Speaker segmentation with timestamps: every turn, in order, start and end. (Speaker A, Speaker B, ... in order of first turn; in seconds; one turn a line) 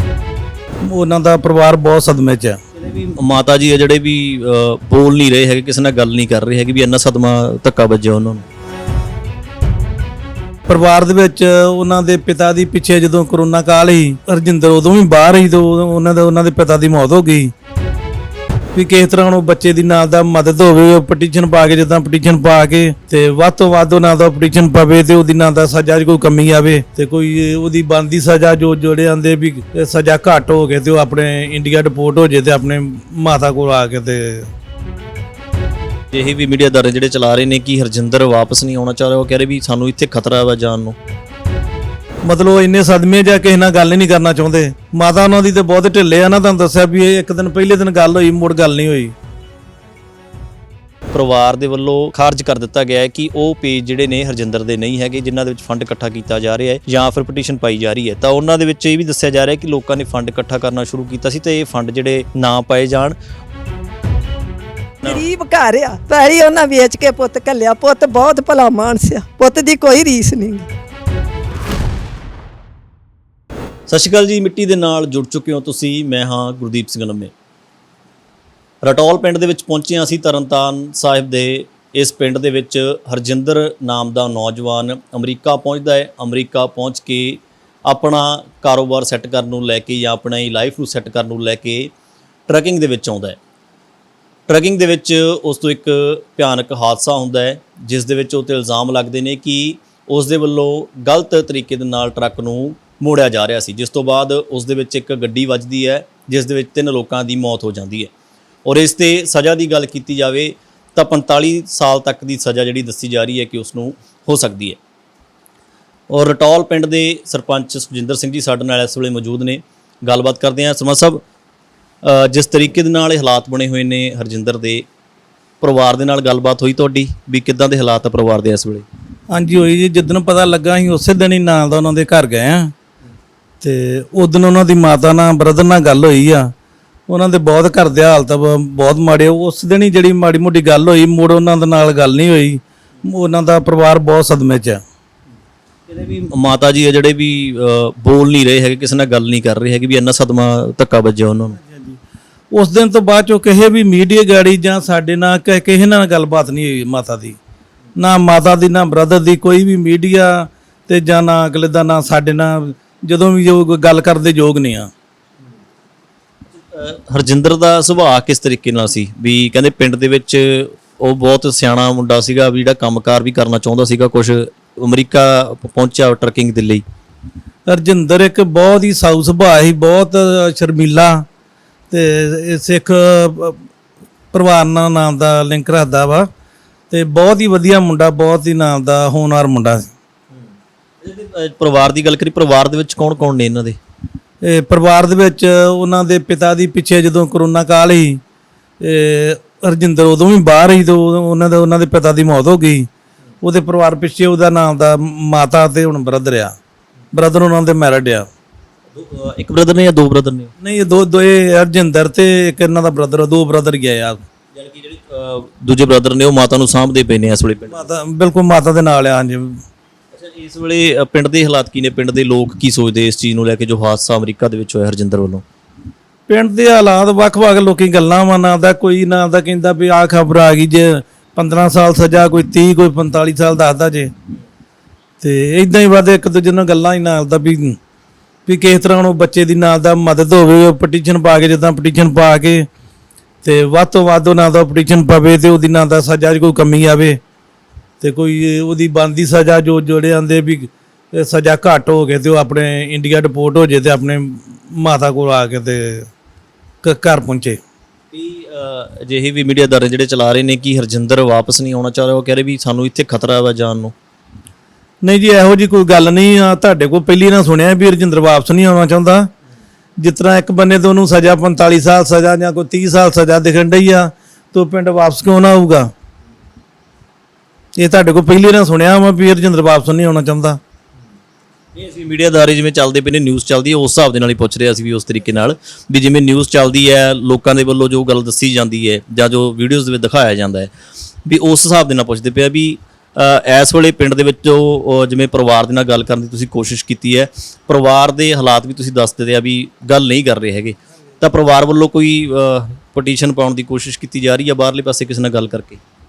Speaker A: 0.8-2.6
Speaker B: 2.7-8.4
Speaker A: 10.7-17.5
Speaker A: 18.8-34.5
Speaker B: 36.1-41.0
Speaker A: 42.2-49.1
Speaker B: 51.1-63.2
Speaker C: 65.0-70.7
Speaker B: 73.9-77.3
Speaker B: 78.8-91.9
Speaker B: 92.5-93.4
Speaker B: 94.5-108.1
Speaker B: 108.7-114.8
Speaker B: 116.1-121.2
Speaker B: 122.0-124.9
Speaker B: 125.6-128.9
Speaker A: 129.3-132.7
Speaker A: 133.6-136.5
Speaker A: 137.1-144.8
Speaker B: 145.9-151.6
Speaker A: 151.6-152.0
Speaker A: 152.5-157.4
Speaker A: 158.0-164.9
Speaker B: 166.5-176.8
Speaker A: 177.7-181.3
Speaker A: 181.9-183.6
Speaker A: 184.3-186.3
Speaker A: 186.9-189.9
Speaker B: 191.0-193.8
Speaker A: 194.4-198.2
Speaker A: 198.8-202.9
Speaker A: 203.4-206.6
Speaker A: 207.1-208.3
Speaker B: 208.9-210.5
Speaker A: 210.6-214.2
Speaker B: 214.5-217.9
Speaker A: 217.7-219.6
Speaker B: 220.1-225.4
Speaker A: 226.3-234.1
Speaker A: 235.2-237.8
Speaker A: 238.5-242.7
Speaker A: 243.4-247.2
Speaker A: 248.0-256.1
Speaker A: 256.8-257.6
Speaker B: 258.1-263.9
Speaker A: 265.0-269.3
Speaker A: 270.0-275.9
Speaker A: 277.8-280.6
Speaker B: 281.8-290.7
Speaker B: 291.2-305.8